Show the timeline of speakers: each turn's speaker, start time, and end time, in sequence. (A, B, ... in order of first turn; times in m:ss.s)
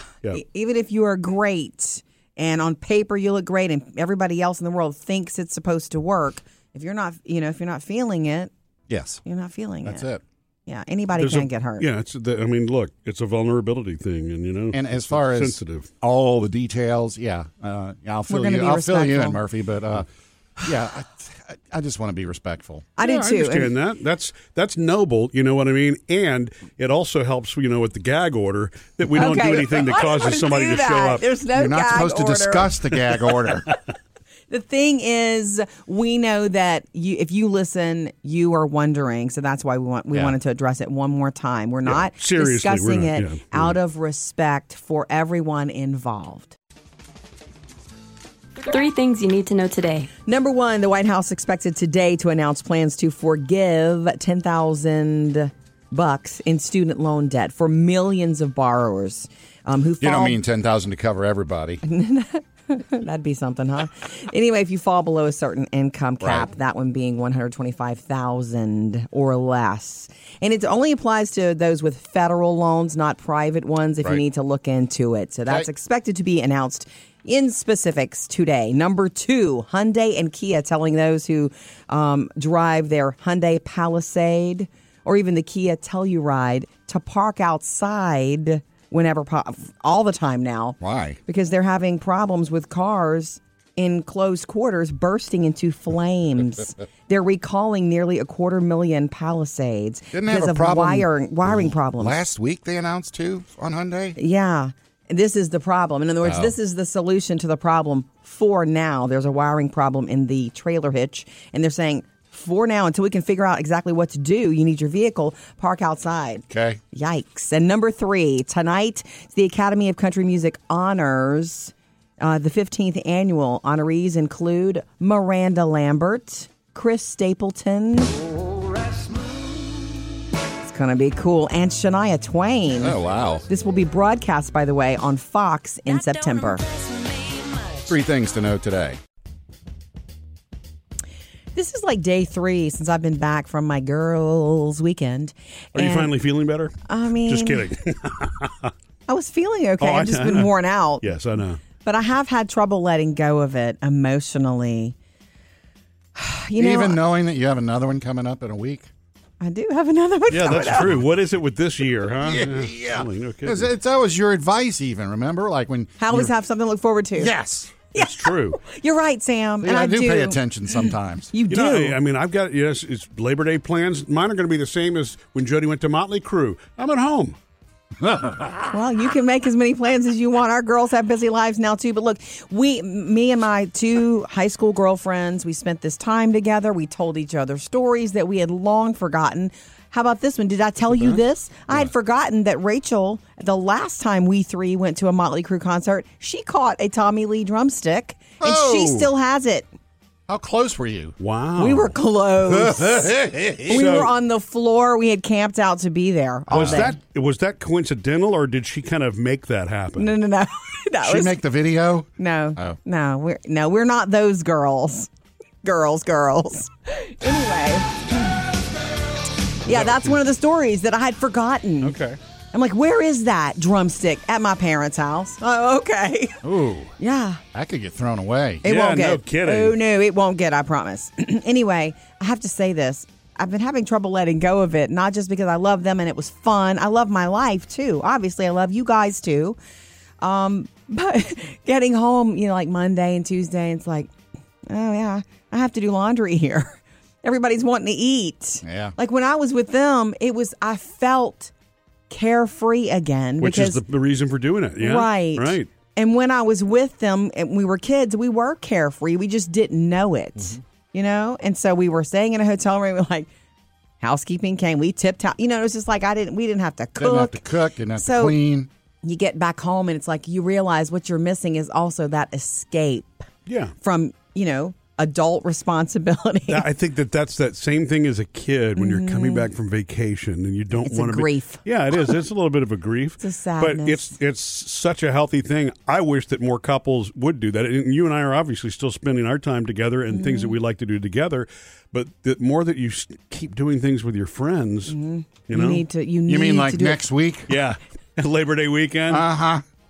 0:00.3-0:08.5 A
0:08.9-0:09.2 B
0:09.2-0:10.0 A
0:09.8-0:10.2 B
0:10.7-0:11.9 A
0:11.2-0:15.9 C
0:14.7-0:20.1 B
0:18.3-0:19.4 A
0:20.6-0:22.9 B
0:23.0-0:23.7 A
0:23.0-0:31.2 C
0:29.1-0:33.2 A
0:31.5-0:33.7 B
0:34.5-0:46.5 A
0:41.8-0:43.8 C
0:48.6-0:50.1 D
0:50.2-1:00.4 A
1:00.0-1:01.8 B
1:01.8-1:42.2 A
1:06.2-1:06.5 B
1:30.8-1:31.2 B
1:40.1-1:44.2 B
1:44.2-2:08.1 A
1:46.2-1:46.6 B
1:56.5-1:56.8 B
2:10.6-2:13.0 A
2:12.8-2:13.5 B
2:13.5-2:16.6 A
2:16.4-2:17.8 D
2:17.9-2:19.0 B
2:21.5-2:26.1 A
2:25.7-2:28.7 C
2:26.9-2:27.6 A
2:29.1-2:31.1 A
2:29.8-2:31.6 C
2:31.8-2:34.9 A
2:36.1-2:37.0 A
2:36.6-2:38.9 B
2:39.4-2:40.9 A
2:40.3-2:43.7 C
2:42.2-2:46.3 B
2:46.0-2:47.3 A
2:47.2-2:47.7 B
2:47.9-2:48.6 C
2:47.9-2:50.4 A
2:49.6-2:51.3 B
2:51.3-2:52.0 A
2:51.5-2:57.4 C
2:58.0-2:58.8 B
2:58.7-3:19.7 A
3:18.4-3:19.1 B
3:20.3-3:21.2 B
3:21.2-3:21.9 C
3:21.6-3:27.0 A
3:22.4-3:24.0 B
3:23.7-3:24.1 C
3:26.5-3:26.9 B
3:26.5-3:30.2 C
3:30.0-3:31.4 A
3:31.0-3:32.8 B
3:32.2-3:35.1 A
3:35.6-3:38.4 A
3:39.6-3:42.0 A
3:39.7-3:40.0 C
3:41.8-3:42.2 C
3:42.5-3:46.4 A
3:46.4-3:46.9 B
3:47.0-3:47.4 A
3:47.5-3:48.7 B
3:48.6-3:59.6 A
3:48.6-3:49.8 C
4:00.2-4:04.1 A
4:04.7-4:11.5 A
4:08.6-4:08.9 B
4:12.1-4:13.8 A
4:13.4-4:15.7 C
4:14.8-4:23.3 A
4:24.0-4:27.4 A
4:27.0-4:28.7 B
4:28.0-4:28.4 A
4:29.0-4:33.2 A
4:33.4-4:33.7 C
4:33.8-4:36.7 A
4:36.5-4:55.0 C
4:38.8-4:39.5 A
4:40.8-4:41.6 A
4:43.2-4:44.1 A
4:50.1-4:50.6 A
4:54.9-4:57.0 A
4:55.5-4:55.8 C
4:56.2-4:57.5 B
4:57.5-4:59.2 C
4:59.1-4:59.6 B